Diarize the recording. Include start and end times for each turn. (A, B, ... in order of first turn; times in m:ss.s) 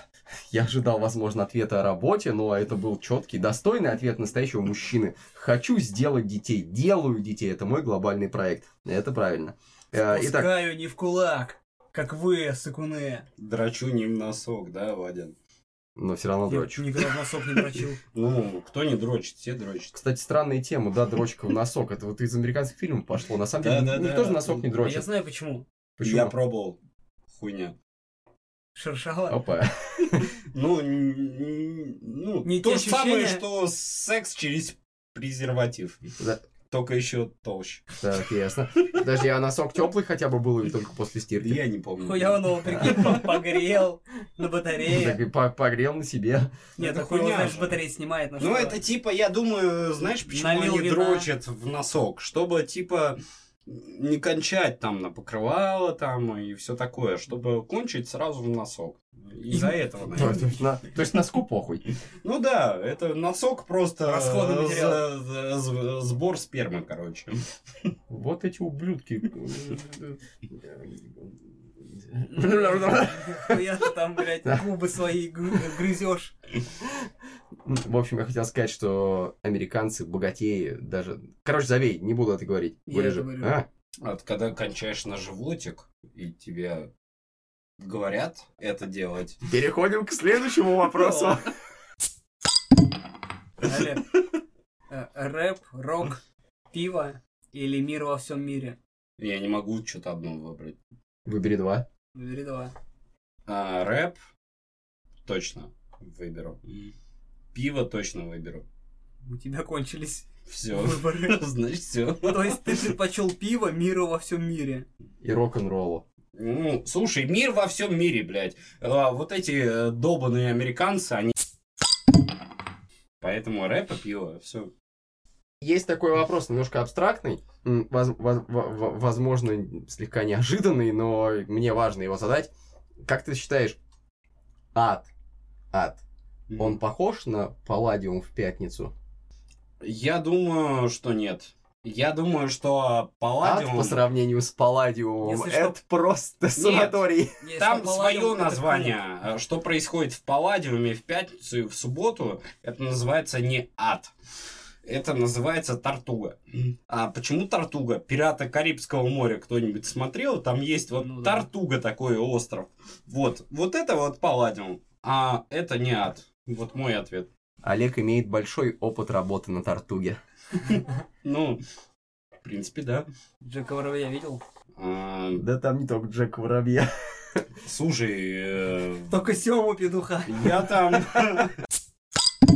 0:00.5-0:10.5 A
0:10.0-0:13.2 B
0:13.4-0:15.3 C
0:16.0-0:16.8 A
0:16.5-0:18.0 B
0:18.1-0:19.9 C
0:19.9-0:25.1 A
0:23.6-0:24.7 C
0:24.8-0:25.6 B
0:26.0-0:26.3 A
0:26.0-0:26.8 C
0:27.3-0:27.7 C
0:28.7-0:29.4 B
0:29.3-0:30.3 A
0:30.3-0:36.0 C
0:32.4-0:33.4 B
0:36.7-0:38.0 C
0:38.0-0:41.6 A
0:41.4-0:43.2 C
0:42.0-0:45.2 B
0:42.7-0:43.2 A
0:44.9-0:46.5 A
0:46.8-0:47.8 C
0:46.8-0:48.8 B
0:48.4-1:00.4 C
0:50.3-0:51.3 B
0:59.5-1:00.4 B
1:00.1-1:01.8 A
1:02.2-1:07.3 C
1:04.0-1:05.0 B
1:08.1-1:11.3 A
1:11.9-1:13.6 A
1:12.2-1:16.3 B
1:16.8-1:17.1 A
1:17.6-1:23.7 A
1:22.9-1:23.6 B
1:24.0-1:26.9 C
1:27.8-1:29.4 C
1:29.5-1:31.5 A
1:31.0-1:31.4 B
1:33.6-1:34.2 B
1:34.9-1:38.8 B
1:39.2-1:40.8 C
1:41.2-1:41.8 A
1:42.1-1:42.7 B
1:43.5-1:44.2 C
1:45.2-1:46.9 C
1:47.5-1:48.6 C
1:49.2-1:51.4 B
1:50.5-1:52.9 C
1:52.2-1:54.8 B
1:55.2-1:56.0 A
1:56.3-2:01.3 C
2:03.2-2:04.7 C
2:05.6-2:12.5 A
2:13.0-2:13.8 A
2:14.7-2:15.1 A
2:15.7-2:16.0 A
2:16.5-2:16.8 C
2:16.6-2:18.9 A
2:19.8-2:24.0 C
2:23.4-2:27.4 A
2:25.2-2:25.7 B
2:26.6-2:27.0 C
2:27.4-2:29.0 B
2:27.6-2:34.1 C
2:34.8-2:47.3 C
2:41.0-2:41.5 B
2:47.6-2:50.2 A
2:50.6-2:51.6 C
2:52.4-2:53.1 C
2:53.4-2:54.4 B
2:54.8-2:55.4 C
2:55.3-2:57.4 A
2:57.6-2:59.1 C
2:59.1-3:00.7 B
3:00.3-3:01.5 C